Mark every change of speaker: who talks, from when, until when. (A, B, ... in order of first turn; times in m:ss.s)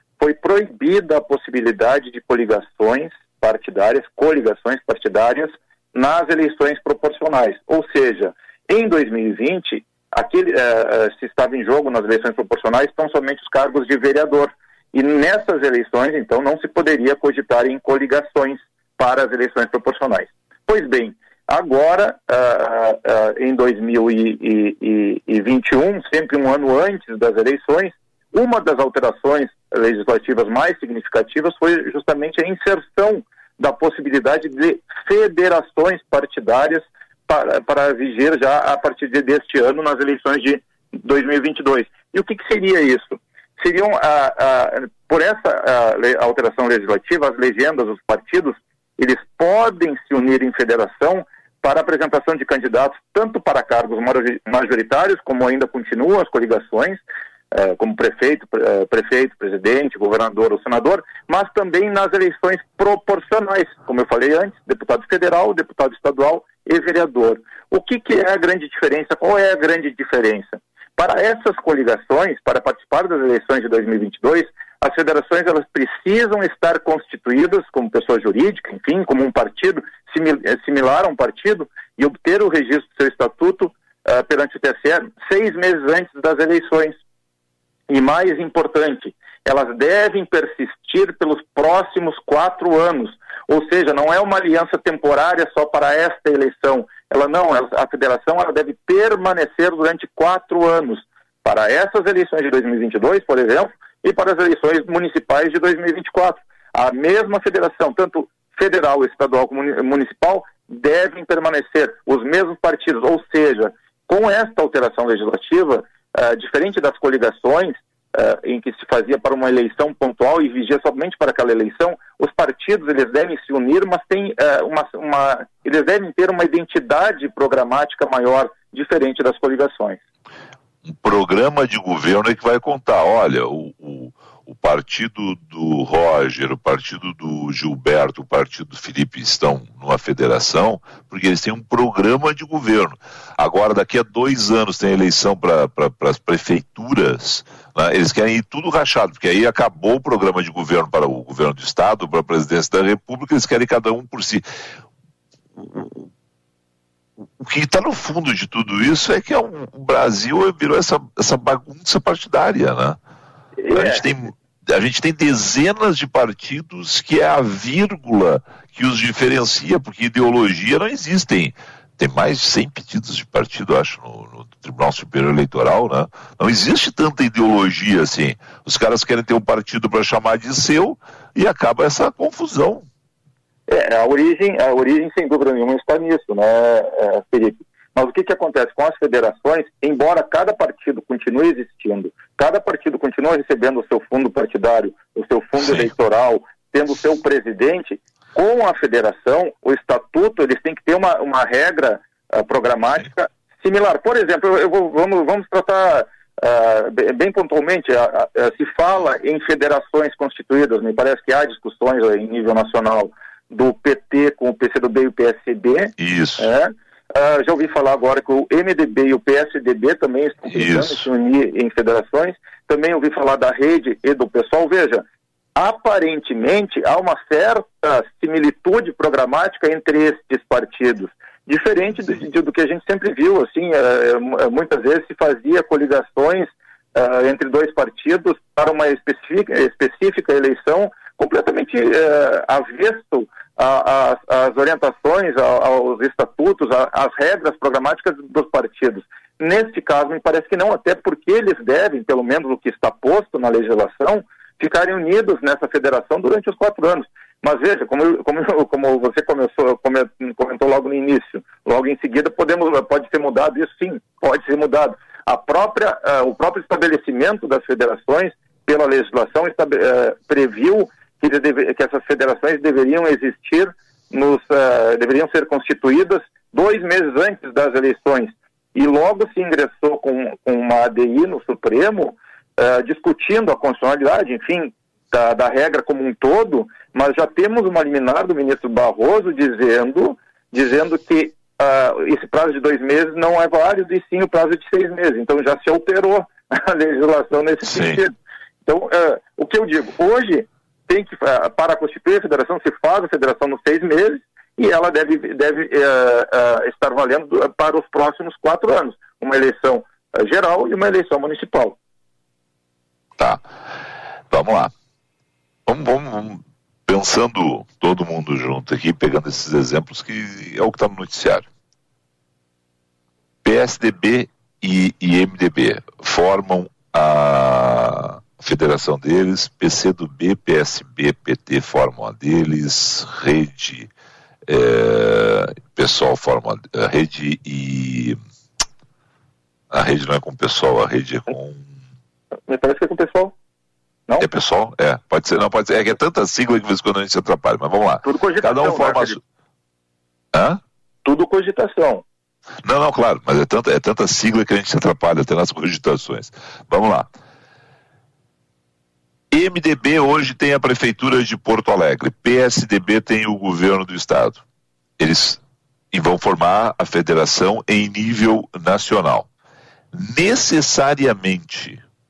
0:00.2-0:57.0 A
0:57.5-1:27.0 A
1:27.9-2:10.0 A
2:10.8-2:34.4 B
2:35.6-2:36.1 B
2:37.4-2:43.0 B
2:43.6-2:44.1 A
2:43.7-3:02.8 B
3:03.7-3:45.0 A
3:15.6-3:15.9 B
3:36.0-3:36.5 B
3:40.5-3:41.1 B
3:45.6-4:58.1 A
4:57.6-4:58.0 B
4:58.6-5:11.8 A
5:13.2-5:13.4 B
5:14.3-5:14.7 B
5:15.6-5:21.5 B
5:23.4-5:33.9 B
5:34.5-5:38.2 B
5:39.7-5:41.7 B
5:42.5-5:43.3 A
5:44.2-5:49.2 B
5:48.0-5:49.2 A
5:50.3-5:50.6 B
5:51.0-5:52.0 A
5:52.6-5:57.1 B
5:59.3-6:04.4 B
6:05.0-6:05.4 B
6:05.9-6:09.3 B
6:09.9-6:11.8 B